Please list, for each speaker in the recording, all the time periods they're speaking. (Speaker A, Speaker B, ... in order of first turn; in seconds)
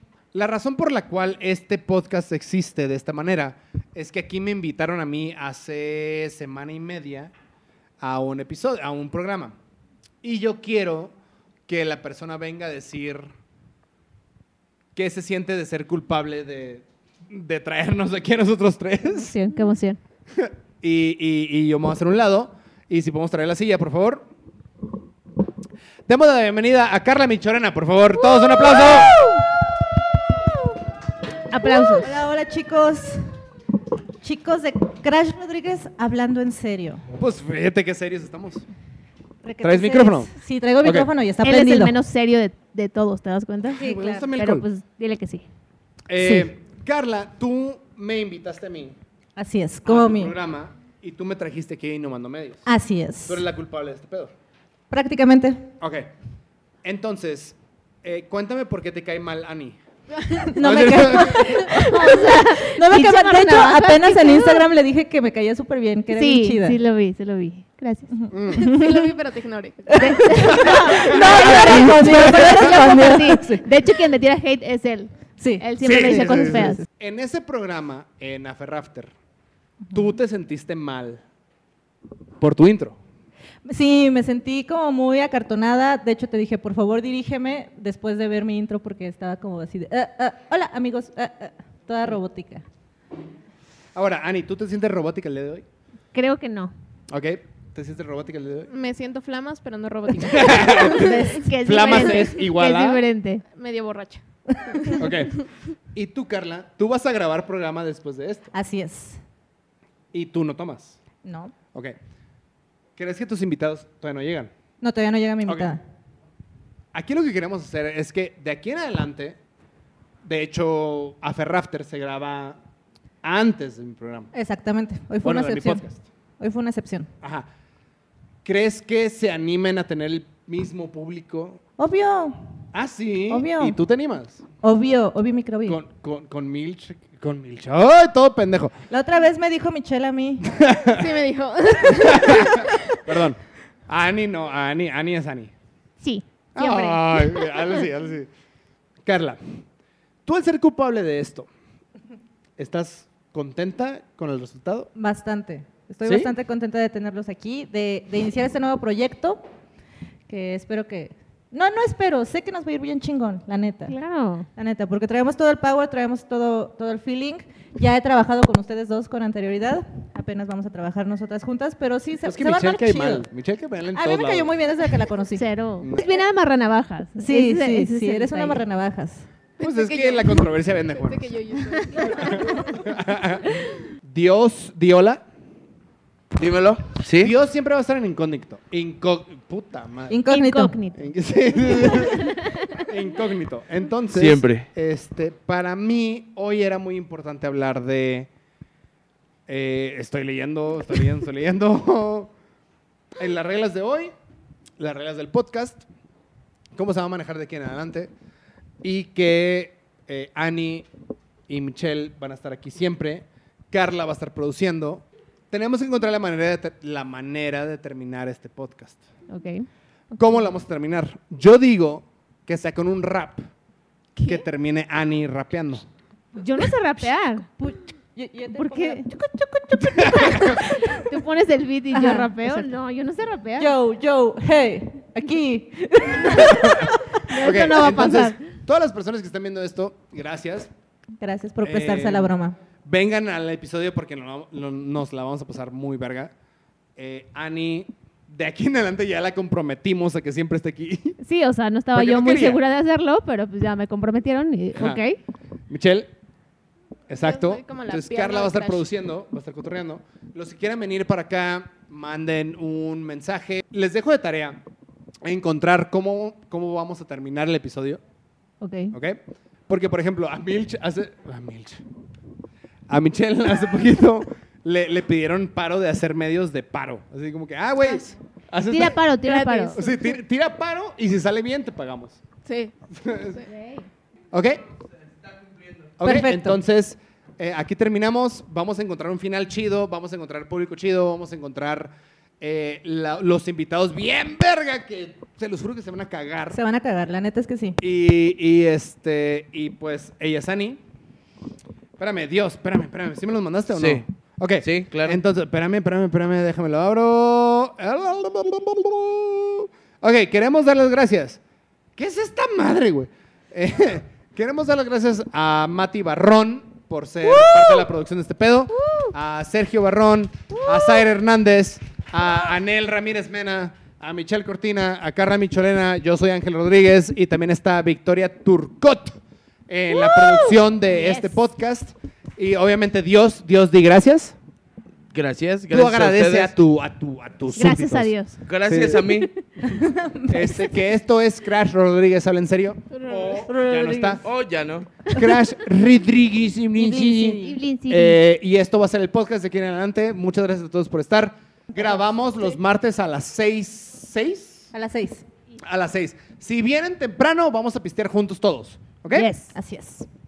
Speaker A: 0.3-7.3, 8.0-9.6, 10.2-11.1, 11.7-13.3, 14.9-19.4, 20.3-24.3, 26.1-29.2, 37.1-38.6, 39.6-40.3, 40.8-41.1, 43.7-44.6, 46.1-49.0, 49.8-52.7, 53.2-54.3, 55.8-56.1, 56.8-59.8, 60.4-61.9, 68.3-68.8, 70.7-73.1, 75.8-79.1, 79.9-81.2, 82.4-83.0, 93.9-95.6, 97.1-98.7, 100.1-103.0, 104.9-105.4, 105.9-108.5, 110.1-111.0, 113.0-114.5, 115.5-115.7, 116.9-119.4, 120.2-122.6, 123.2-124.3, 125.2-126.0, 127.2-127.5, 128.4-131.6, 132.7-134.4, 135.7-138.7, 140.4-141.1, 141.9-145.5, 146.5-148.3, 149.0-149.5, 150.2-151.5, 152.6-154.9, 156.0-156.3, 172.2-174.5, 175.8-176.2, 179.6-181.3, 182.0-185.2, 187.2-190.2, 190.9-198.3, 199.5-202.3, 203.2-204.1, 204.8-205.8, 206.7-208.1, 208.8-210.9, 211.5-219.0, 220.2-223.4, 224.2-225.8, 229.8-230.7, 236.2-240.7, 241.6-246.3, 246.9-251.2, 251.9-252.6, 254.8-255.0, 255.7-256.1, 257.1-264.6, 265.2-268.0, 268.9-271.8, 272.9-279.0, 279.7-282.2, 282.9-283.4, 284.3-284.6, 286.0-296.6, 297.8-300.8, 302.0-311.4, 312.0-329.2, 329.7-334.4, 335.7-338.1, 338.7-339.2, 340.3-344.2, 345.1-354.7, 355.6-359.3
Speaker B: 19.1-20.0, 28.6-29.3, 31.5-32.2, 41.4-45.4, 61.6-64.7, 66.1-68.1, 69.9-76.8, 96.1-96.7, 100.5-103.4, 146.0-147.7, 163.9-164.5, 175.3-178.6, 190.3-191.0, 191.6-192.7, 219.3-219.7, 226.3-227.5, 228.5-229.1, 230.1-233.7, 237.2-238.4, 251.2-255.2, 268.6-268.9, 278.6-279.8, 330.9-331.3, 337.5-338.4, 347.4-348.2, 359.1-359.6
Speaker C: 28.6-29.4, 31.6-33.3, 34.2-37.0, 39.4-41.9, 43.8-44.3, 46.2-46.5, 49.4-50.3, 52.6-53.4, 54.9-55.7, 60.4-66.8, 68.2-69.1, 69.9-73.7, 75.4-76.8, 83.7-92.6, 108.5-109.2, 111.2-111.5, 114.8-115.8, 124.3-125.8, 126.4-127.1, 131.8-132.4, 133.3-133.8, 134.6-135.8, 138.9-140.5, 154.9-159.4, 160.3-163.9, 164.5-173.2, 173.9-175.4, 177.2-179.3, 190.1-190.8, 227.5-231.2, 231.9-232.7, 233.6-237.0, 241.2-242.5, 286.0-286.6, 296.5-297.8, 317.2-317.9, 318.8-319.1, 320.6-321.0, 339.6-340.7, 346.8-347.6, 354.7-355.2, 359.5-360.1
Speaker D: 68.5-70.3, 98.7-102.2, 103.4-105.4, 140.9-142.8, 179.6-182.7, 257.2-258.8, 279.2-280.1, 282.4-283.5, 342.9-343.3
Speaker E: 186.3-187.3, 194.1-194.7, 285.3-285.9, 303.7-304.0, 304.6-305.2, 335.1-336.5, 338.4-339.3, 343.3-345.0